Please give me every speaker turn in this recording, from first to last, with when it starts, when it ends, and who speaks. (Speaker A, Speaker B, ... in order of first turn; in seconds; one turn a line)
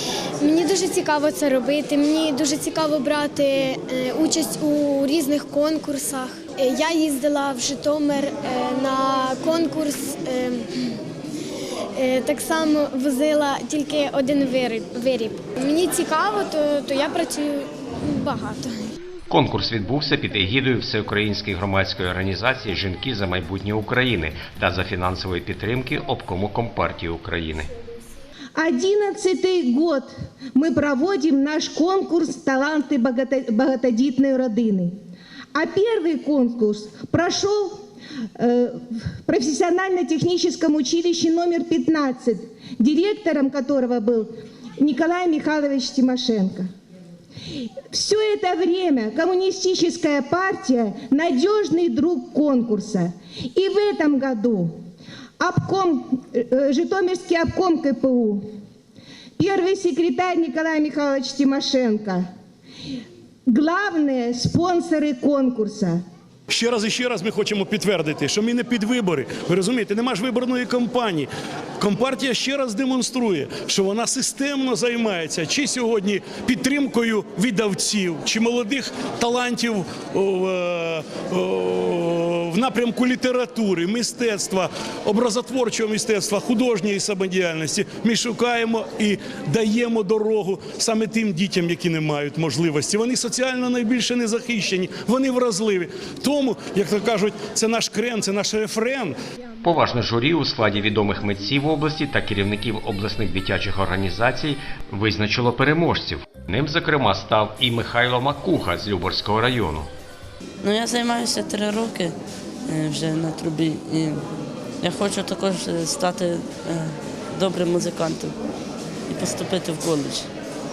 Speaker A: 0.4-10.7
Speaker A: 12.0-18.9
Speaker B: 19.3-27.7
Speaker C: 28.6-34.9
Speaker C: 35.5-37.8
Speaker C: 38.4-46.7
Speaker C: 47.9-54.7
Speaker C: 55.4-58.4
Speaker C: 59.4-62.2
Speaker C: 63.5-66.0
Speaker D: 66.5-99.1
Speaker B: 99.6-109.9
Speaker E: 110.6-112.1
Speaker E: 112.7-114.3
Speaker E: 114.8-118.4
Speaker E: 119.1-120.3